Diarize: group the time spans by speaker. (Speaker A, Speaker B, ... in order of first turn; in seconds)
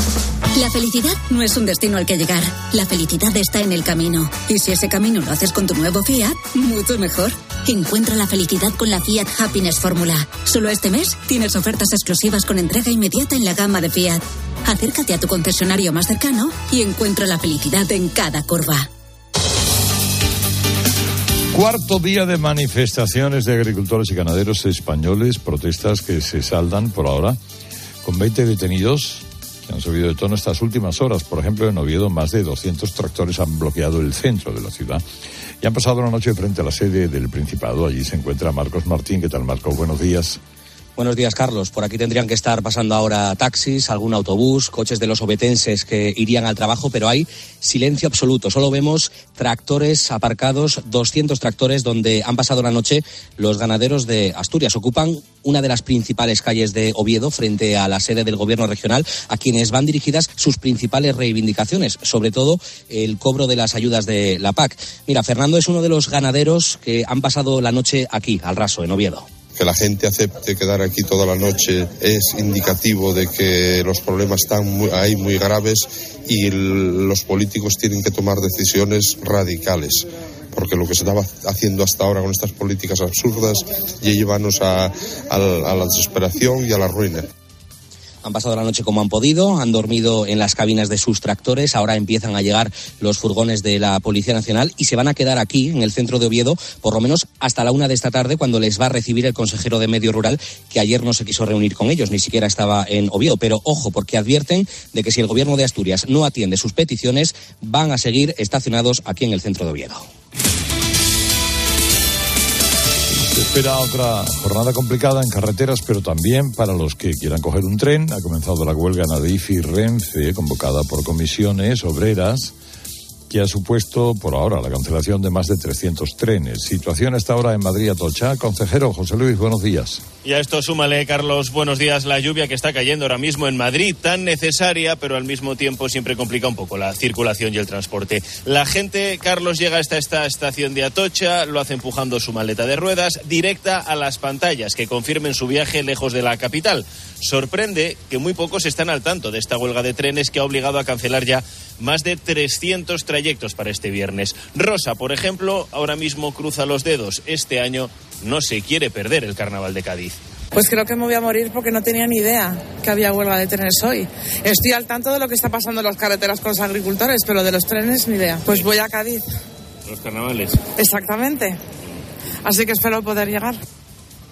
Speaker A: 0.6-18.9
Speaker B: 21.5-27.4, 28.0-35.0, 35.6-40.4, 113.1-122.5, 123.3-130.0
Speaker C: 41.0-69.3, 88.2-110.1
Speaker D: 69.6-87.3
Speaker E: 130.2-160.2, 169.9-170.6
Speaker F: 160.6-169.2, 170.8-171.6, 172.4-173.6